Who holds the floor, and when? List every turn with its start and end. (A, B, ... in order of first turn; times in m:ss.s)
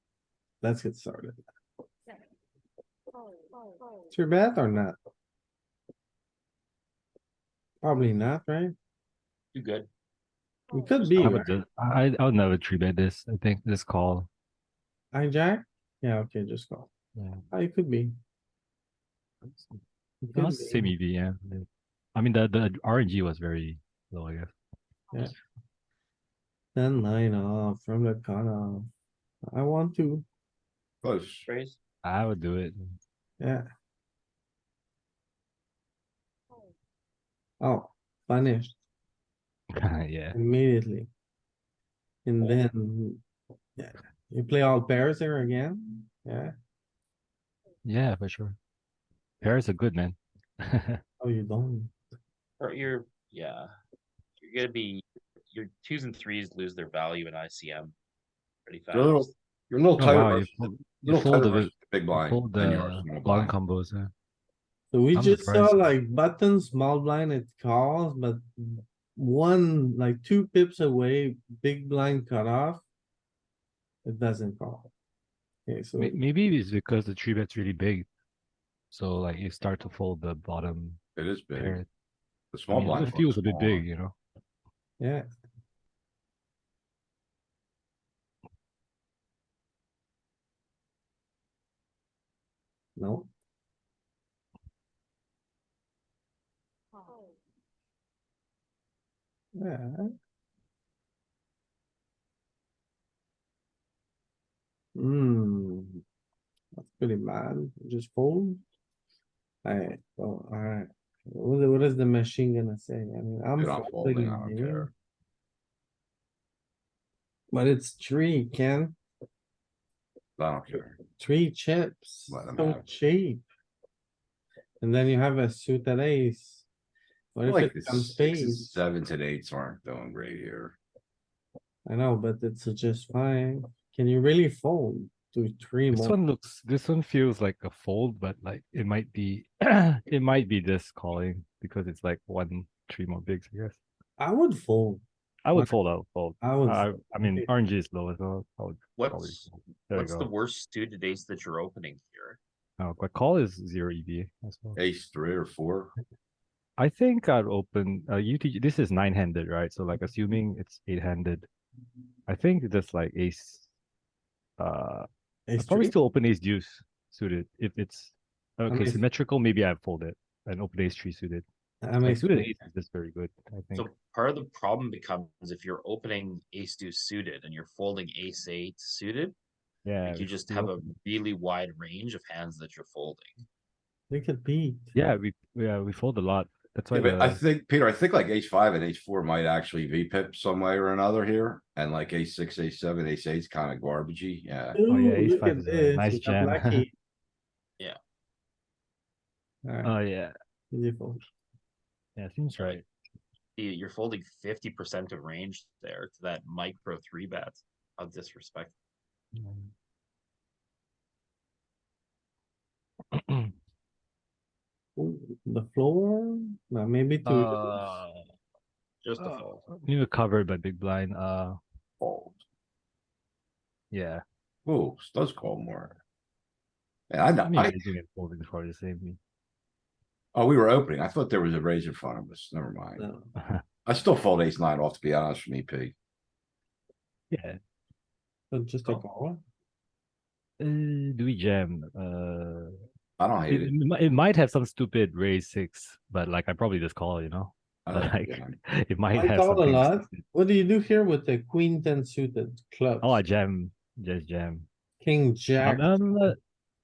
0:00.6-0:01.4 A
0:04.1-0:05.0 A
0:07.8-0:08.7 A
0:09.5-0:09.9 B
0:10.7-0:11.5 A
0:11.1-0:11.5 B
0:11.2-0:14.3 C
0:15.1-0:16.9 A
0:17.2-0:17.4 C
0:17.5-0:18.1 A
0:19.4-0:19.8 C
0:20.2-0:20.9 A
0:20.3-0:24.5 C
0:26.7-0:28.9 A
0:29.4-0:30.2 A
0:31.0-0:31.5 D
0:31.5-0:31.8 B
0:32.0-0:33.0 C
0:33.4-0:33.6 A
0:37.6-0:38.8 A
0:39.7-0:40.4 C
0:40.3-0:41.1 A
0:42.2-0:43.2 A
0:43.8-0:46.5 A
0:47.8-0:48.6 C
0:49.4-0:51.0 C
0:51.2-0:51.9 A
0:52.6-0:53.7 B
0:54.4-0:57.9 B
0:58.7-0:59.3 B
0:58.9-1:03.5 D
1:00.0-1:04.1 C
1:04.9-1:12.8 A
1:05.1-1:05.9 C
1:14.0-1:14.9 A
1:15.7-1:16.2 A
1:16.0-1:18.1 C
1:18.9-1:21.0 C
1:21.2-1:21.8 D
1:21.6-1:21.9 C
1:22.5-1:23.8 D
1:22.7-1:24.1 C
1:25.0-1:25.2 A
1:33.0-1:33.3 A
1:39.6-1:40.1 A
1:44.9-1:46.0 A
1:46.8-1:48.6 A
1:49.6-1:54.9 A
1:53.6-1:54.9 D
1:57.5-1:59.0 A
2:00.4-2:01.0 D
2:01.2-2:03.4 A
2:02.3-2:02.8 D
2:04.8-2:06.6 A
2:07.3-2:08.8 A
2:07.4-2:10.8 D
2:11.8-2:16.2 A
2:15.9-2:23.8 C
2:24.2-2:25.0 A
2:25.4-2:30.3 C
2:26.4-2:27.5 A
2:29.0-2:32.4 B
2:32.8-2:34.8 C
2:34.8-2:35.9 D
2:36.8-2:41.5 C
2:42.3-2:43.7 C
2:44.6-2:51.4 C
2:45.5-2:45.9 A
2:48.7-2:49.0 A
2:51.8-2:52.5 A
2:52.0-2:53.9 C
2:53.7-2:59.3 B
2:59.8-3:00.9 C
3:00.0-3:03.4 B
3:04.1-3:04.9 A
3:04.9-3:07.4 C
3:06.9-3:14.8 D
3:14.7-3:16.9 A
3:14.9-3:16.8 C
3:19.6-3:20.0 A
3:19.8-3:20.3 C
3:20.7-3:21.2 A
3:22.2-3:22.8 C
3:22.6-3:22.8 B
3:23.6-3:28.7 B
3:29.3-3:29.7 C
3:33.1-3:33.5 C
3:35.0-3:38.0 A
3:37.2-3:38.3 C
3:39.0-3:39.6 B
3:39.2-3:41.6 C
3:42.0-3:42.4 D
3:43.9-3:44.2 C
3:44.6-3:46.0 D
3:47.1-3:47.9 D
3:47.4-3:49.2 C
3:50.3-3:53.0 D
3:53.0-3:53.3 A
3:53.8-3:55.9 D
3:57.3-3:57.6 C
3:58.5-3:59.4 A
4:00.6-4:02.7 C
4:03.2-4:03.7 D
4:03.5-4:10.2 C
4:07.8-4:08.6 D
4:09.1-4:13.2 A
4:13.0-4:14.7 C
4:15.0-4:16.0 A
4:15.6-4:16.4 C